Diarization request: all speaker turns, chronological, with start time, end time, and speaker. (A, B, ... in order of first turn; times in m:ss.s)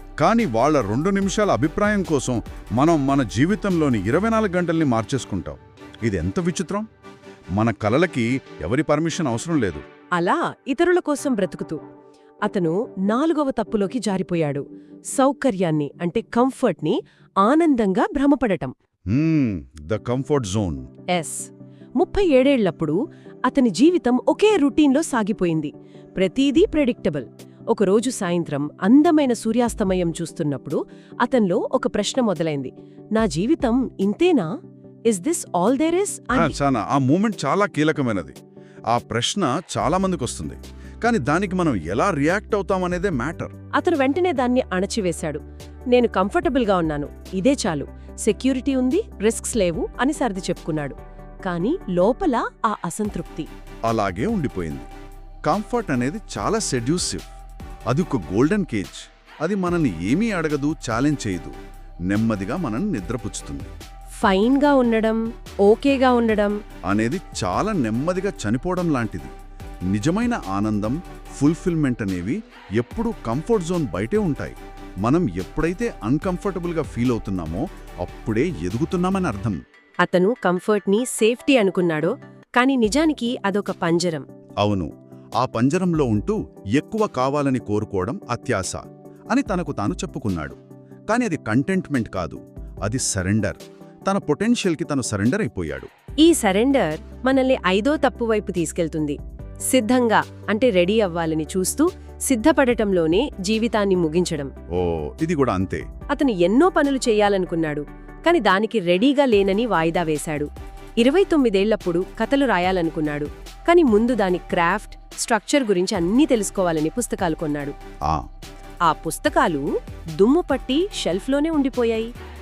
0:00.2-0:06.9 A
0:07.6-0:09.8 A
0:10.2-0:11.8 B
0:12.4-0:14.6 B
0:15.1-0:18.7 B
0:19.1-0:20.8 A
0:21.1-0:34.5 B
0:35.1-0:36.6 B
0:36.3-0:38.4 A
0:38.9-0:43.5 A
0:43.7-0:45.4 B
0:45.9-0:53.5 B
0:53.9-0:54.9 A
0:55.5-0:57.2 A
0:57.9-1:01.5 A
1:02.1-1:03.7 A
1:04.2-1:06.6 B
1:06.9-1:09.3 A
1:09.9-1:19.6 A
1:20.0-1:24.2 B
1:24.6-1:30.6 A
1:31.1-1:35.9 A
1:36.2-1:39.2 B
1:39.7-1:44.5 B
1:44.7-1:45.8 A
1:46.1-1:57.7 B
1:58.9-1:59.6 B
2:00.2-2:02.1 B